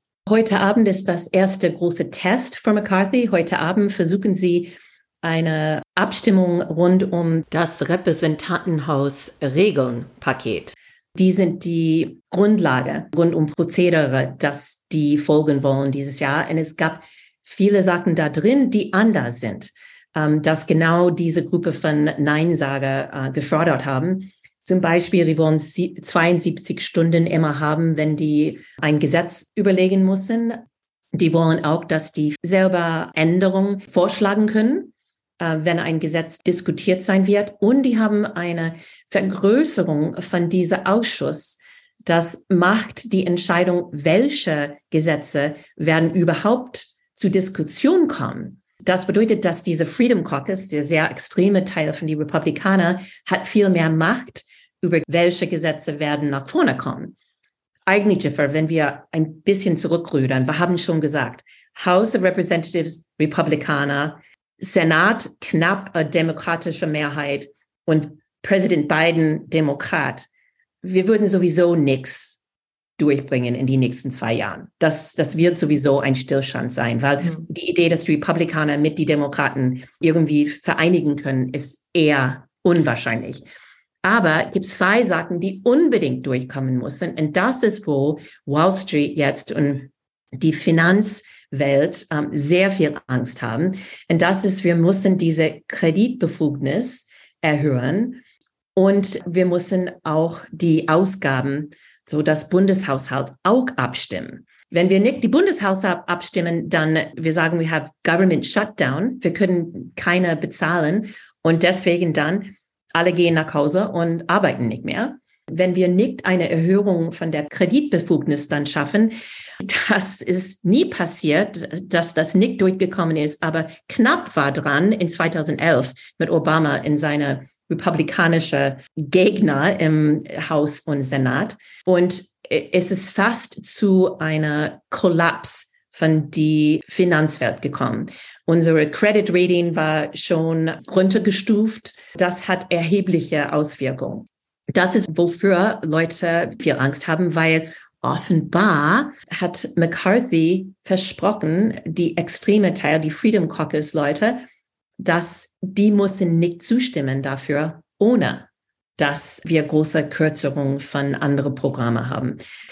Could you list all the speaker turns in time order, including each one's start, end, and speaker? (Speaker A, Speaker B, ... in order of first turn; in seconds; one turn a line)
Speaker A: 0.3-30.6
Speaker A: 31.1-57.1
Speaker A: 57.9-70.3
Speaker A: 70.8-72.4
Speaker A: 73.0-83.4
Speaker A: 84.0-98.2
Speaker A: 98.8-154.4
Speaker A: 155.0-158.5
Speaker A: 159.0-162.4